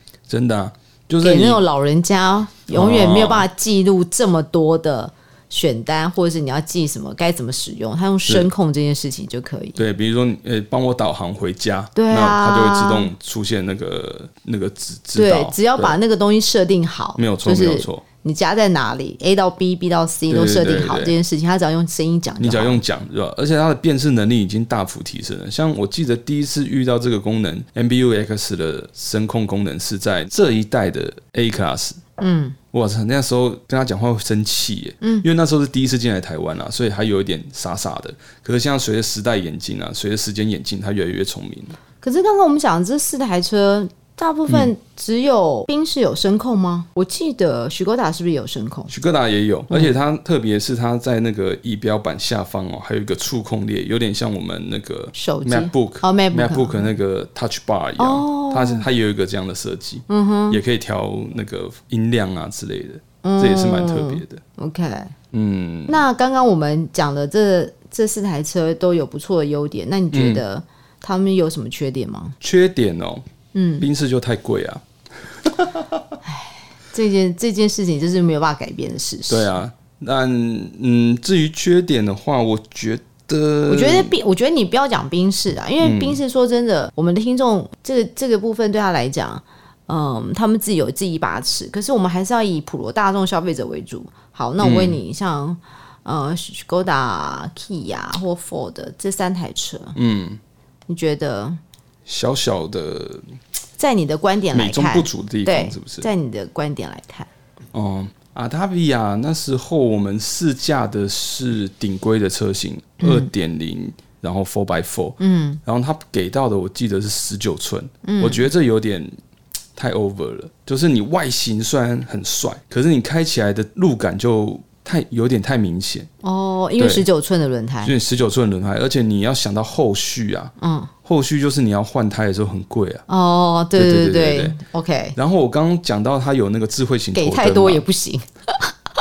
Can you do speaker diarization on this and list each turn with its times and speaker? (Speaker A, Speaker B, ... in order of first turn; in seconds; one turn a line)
Speaker A: 0.3-1.6
Speaker B: 1.2-9.8
Speaker A: 2.7-3.5
Speaker A: 9.8-16.0
Speaker B: 11.9-13.1
Speaker B: 15.2-22.8
Speaker A: 17.2-18.0
Speaker A: 20.3-21.2
Speaker A: 22.4-32.0
Speaker B: 32.2-32.6
Speaker A: 32.7-41.8
Speaker B: 35.0-35.3
Speaker B: 42.0-48.9
Speaker A: 48.9-64.4
Speaker B: 55.1-56.9
Speaker B: 58.0-58.9
Speaker B: 60.1-60.6
Speaker B: 63.2-65.1
Speaker A: 65.3-66.0
Speaker B: 65.9-72.3
Speaker A: 70.1-70.4
Speaker A: 72.4-73.3
Speaker B: 73.5-73.9
Speaker A: 73.8-76.2
Speaker B: 76.2-79.6
Speaker A: 79.3-84.1
Speaker B: 83.7-100.0
Speaker A: 85.8-86.2
Speaker A: 94.6-95.0
Speaker A: 100.0-100.4
Speaker B: 100.9-101.6
Speaker A: 102.1-103.3
Speaker B: 103.8-107.3
Speaker A: 104.5-106.1
Speaker A: 107.7-119.2
Speaker B: 113.0-113.3
Speaker B: 115.2-115.6
Speaker B: 118.0-118.5
Speaker A: 119.8-126.1
Speaker B: 126.2-127.9
Speaker A: 126.8-127.1
Speaker A: 127.8-130.5
Speaker B: 130.6-130.9
Speaker A: 131.1-133.0
Speaker B: 133.1-135.2
Speaker A: 133.8-134.6
Speaker A: 135.2-137.8
Speaker B: 137.1-138.7